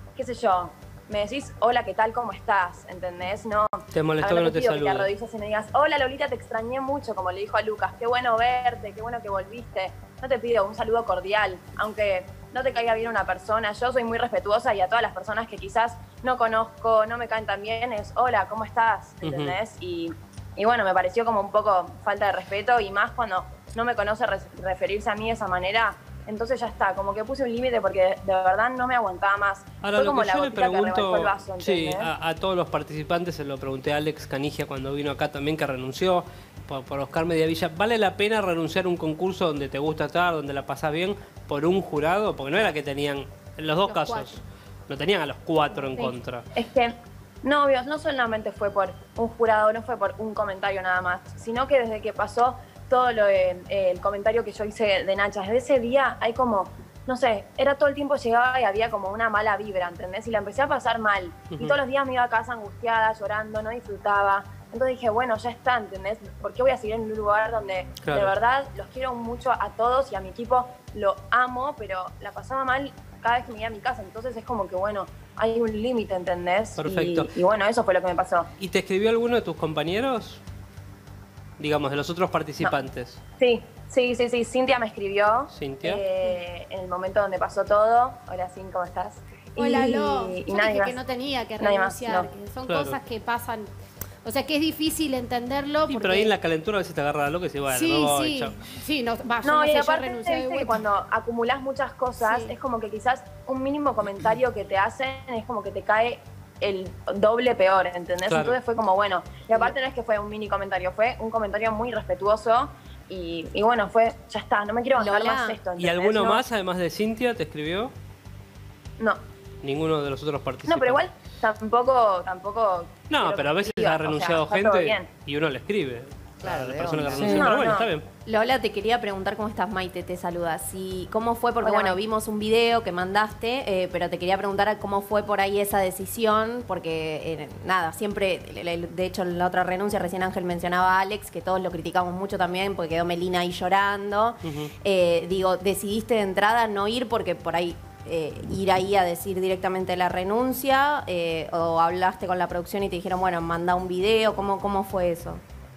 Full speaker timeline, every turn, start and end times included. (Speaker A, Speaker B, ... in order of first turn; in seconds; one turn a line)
Speaker A: 0.1-32.1
Speaker B: 3.9-5.1
Speaker B: 19.2-19.6
Speaker B: 29.8-46.5
Speaker C: 43.8-44.4
Speaker C: 45.8-46.1
Speaker A: 46.5-78.5
Speaker B: 61.5-61.8
Speaker B: 68.0-68.3
Speaker B: 76.8-77.3
Speaker B: 78.6-80.4
Speaker B: 81.6-83.2
Speaker A: 83.4-91.0
Speaker B: 85.5-86.0
Speaker C: 89.6-93.7
Speaker A: 91.6-92.3
Speaker B: 92.7-93.0
Speaker C: 94.2-96.3
Speaker B: 95.9-98.6
Speaker C: 97.7-100.8
Speaker A: 99.4-116.4
Speaker C: 102.2-102.5
Speaker B: 108.2-108.6
Speaker D: 114.9-115.6
Speaker B: 115.8-117.9
Speaker B: 119.6-121.0
Speaker A: 120.7-125.1
Speaker B: 123.1-128.0
Speaker D: 126.4-127.6
Speaker C: 127.1-127.4
Speaker A: 127.2-127.9
Speaker D: 128.2-155.4
Speaker A: 131.6-132.0
Speaker B: 144.4-144.7